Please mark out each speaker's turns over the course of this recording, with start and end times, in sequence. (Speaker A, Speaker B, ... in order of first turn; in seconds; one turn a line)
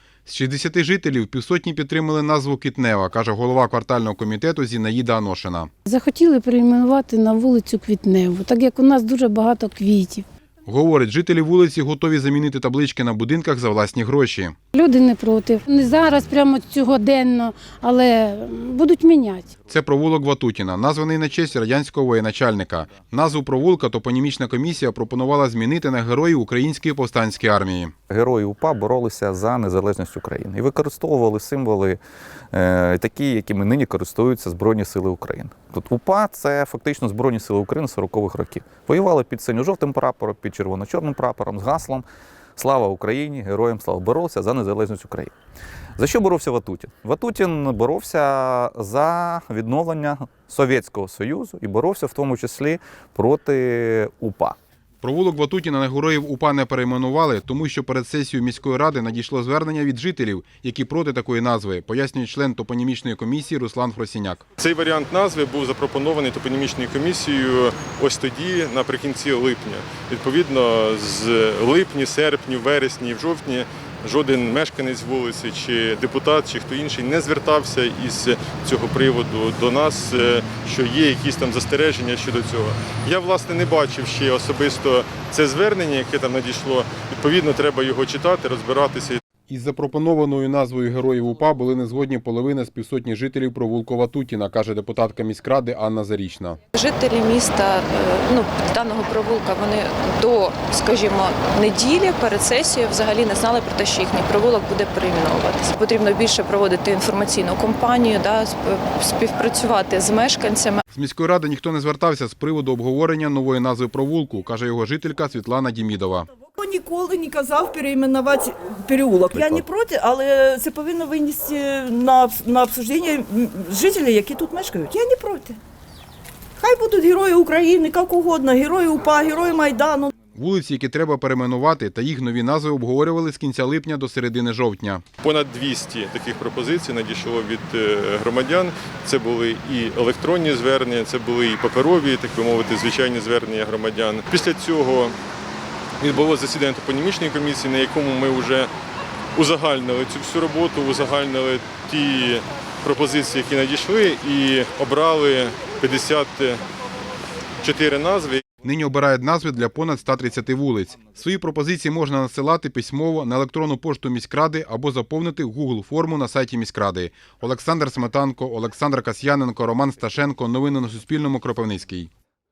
Speaker A: 0.2-5.7
Speaker B: 5.8-10.2
Speaker A: 10.7-14.5
Speaker B: 14.7-19.5
Speaker A: 19.7-27.9
Speaker C: 28.1-32.0
Speaker C: 32.5-42.0
Speaker C: 42.6-45.3
Speaker C: 46.0-54.5
Speaker A: 55.0-64.4
Speaker D: 64.6-89.2
Speaker A: 89.5-96.6
Speaker E: 96.7-110.8
Speaker A: 110.9-116.3
Speaker F: 116.6-125.6
Speaker F: 126.6-130.1
Speaker A: 130.3-135.0
Speaker D: 135.2-145.1
Speaker D: 146.0-148.7
Speaker D: 149.3-156.6
Speaker D: 157.6-158.4
Speaker A: 158.6-172.1